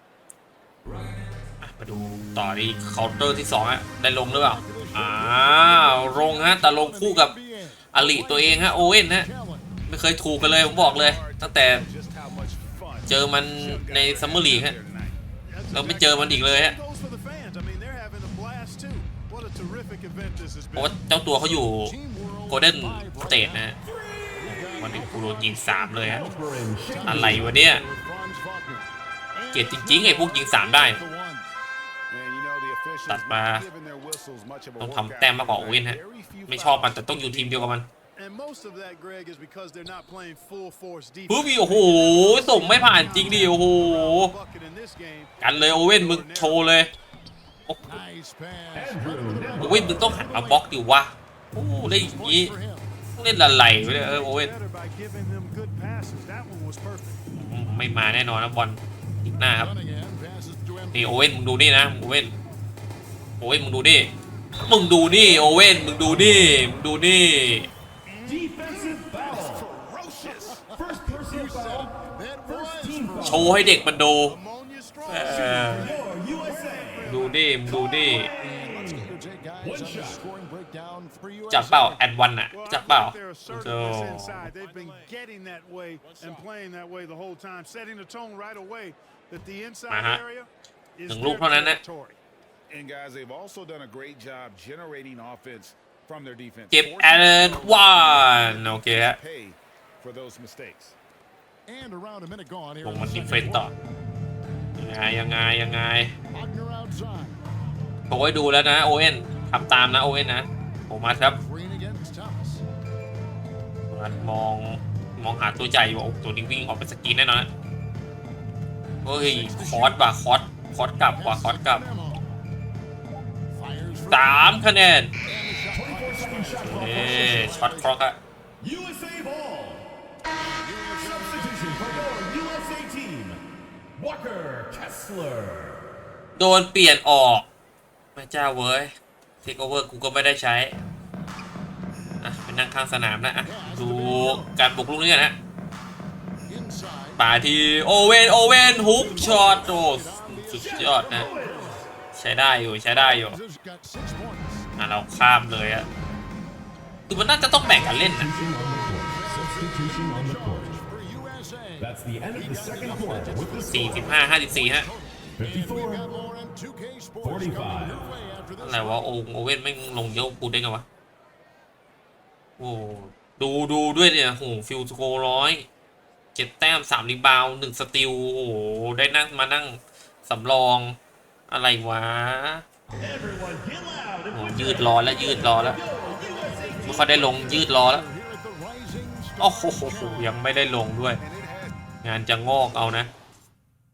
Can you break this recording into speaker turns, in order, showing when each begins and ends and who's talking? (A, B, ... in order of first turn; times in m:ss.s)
0:01.6-0:07.3 A
0:04.2-0:09.7 B
0:07.9-0:09.3 A
0:09.9-0:11.8 A
0:10.4-0:15.2 C
0:13.1-0:14.7 A
0:15.4-0:21.0 D
0:15.7-0:16.8 A
0:20.7-0:21.9 A
0:21.3-0:23.8 B
0:22.5-0:23.8 A
0:23.8-0:24.9 E
0:24.3-0:31.5 B
0:24.5-0:26.3 A
0:26.0-0:27.5 E
0:27.0-0:27.8 A
0:29.5-0:31.0 A
0:32.1-0:37.6 C
0:33.1-0:33.7 A
0:34.8-0:37.9 A
0:38.2-0:46.8 D
0:41.3-0:44.3 A
0:45.4-0:46.9 A
0:47.7-0:48.0 A
0:47.8-0:50.6 B
0:48.7-0:50.5 E
0:49.6-0:52.5 A
0:51.8-0:52.9 B
0:53.2-0:54.5 A
0:53.8-0:57.2 D
0:57.3-0:59.7 A
0:59.6-1:01.3 B
1:00.9-1:02.4 A
1:03.4-1:04.1 A
1:04.6-1:07.7 A
1:06.1-1:06.5 B
1:08.0-1:10.7 C
1:08.2-1:09.7 E
1:10.2-1:14.5 B
1:10.7-1:13.7 E
1:13.2-1:14.4 A
1:14.4-1:17.5 D
1:15.1-1:15.9 A
1:15.2-1:20.2 E
1:17.0-1:18.3 A
1:17.8-1:22.0 B
1:21.5-1:24.5 A
1:22.5-1:32.2 D
1:24.6-1:25.1 B
1:26.0-1:26.4 B
1:29.9-1:30.2 A
1:31.1-1:31.8 A
1:32.7-1:41.0 C
1:36.7-1:39.2 A
1:41.7-1:43.7 B
1:42.8-1:43.7 A
1:44.8-1:46.1 A
1:46.3-1:47.4 B
1:48.1-1:51.4 A
1:51.2-1:52.6 B
1:53.9-1:57.5 A
1:59.0-2:01.8 A
1:59.0-2:00.1 B
2:00.9-2:02.2 B
2:03.5-2:04.6 B
2:04.1-2:05.1 A
2:05.2-2:08.0 B
2:05.7-2:07.6 E
2:06.6-2:08.2 A
2:08.6-2:09.8 E
2:10.3-2:12.2 B
2:11.0-2:13.4 E
2:14.0-2:15.8 E
2:16.4-2:17.4 A
2:18.2-2:18.9 A
2:19.4-2:20.8 A
2:22.2-2:25.4 A
2:23.4-2:24.5 B
2:26.5-2:27.2 B
2:27.2-2:31.3 A
2:28.5-2:31.9 B
2:30.5-2:31.9 E
2:32.1-2:33.4 A
2:32.9-2:34.7 B
2:34.8-2:35.9 A
2:37.1-2:38.3 A
2:37.7-2:40.8 E
2:37.7-2:49.1 B
2:41.8-2:44.1 E
2:43.7-2:44.9 A
2:45.4-2:46.1 E
2:47.2-2:48.0 E
2:48.6-2:50.8 A
2:52.6-2:55.7 A
2:56.3-3:00.9 A
3:01.5-3:02.6 A
3:02.9-3:07.4 E
3:04.3-3:05.8 A
3:06.1-3:10.3 B
3:06.8-3:08.0 A
3:09.4-3:11.2 A
3:11.2-3:11.8 C
3:12.0-3:13.1 A